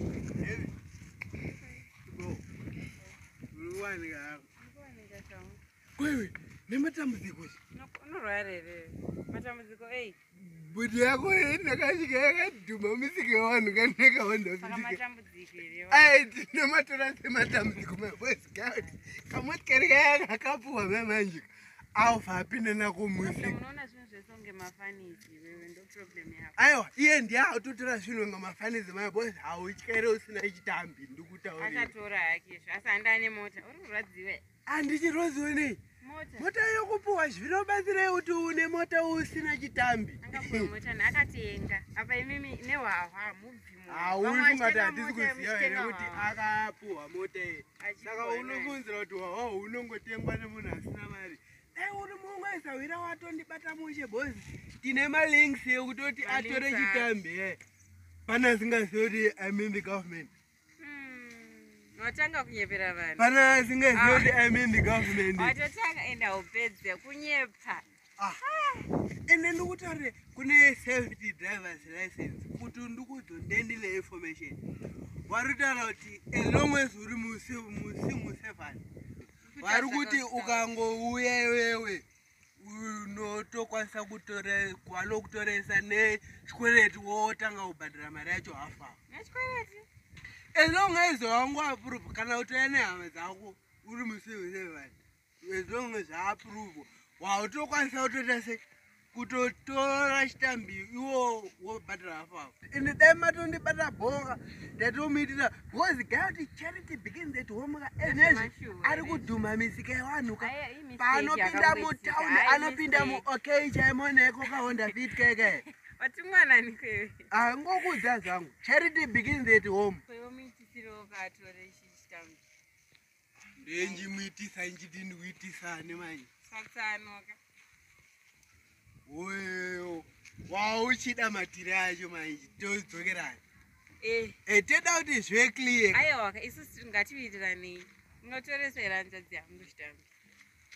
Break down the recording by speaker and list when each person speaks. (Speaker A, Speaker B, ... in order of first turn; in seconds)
Speaker A: 0.3-0.7, 2.0-2.4, 3.5-4.4, 6.0-7.6, 10.3-15.0, 15.9-23.6, 26.6-31.9, 34.7-35.8, 36.4-40.7, 43.9-57.6, 58.3-60.3, 63.2-65.5, 69.3-74.6, 75.3-78.8, 79.6-82.0, 82.6-89.0, 90.5-98.6, 99.1-115.6, 117.3-120.0, 123.6-126.3, 129.1-133.4, 134.4-136.0
Speaker B: 1.4-1.9, 2.8-3.1, 4.6-5.6, 7.7-10.2, 14.6-16.1, 23.2-26.6, 31.6-34.4, 36.0-36.5, 40.2-46.3, 47.8-48.8, 56.2-57.1, 60.8-63.2, 63.9-64.4, 65.0-67.8, 68.4-68.9, 79.5-80.7, 89.1-89.8, 108.0-109.2, 110.4-113.2, 114.4-117.2, 120.1-122.4, 123.7-124.1, 126.4-127.4, 134.0-134.4, 135.9-140.0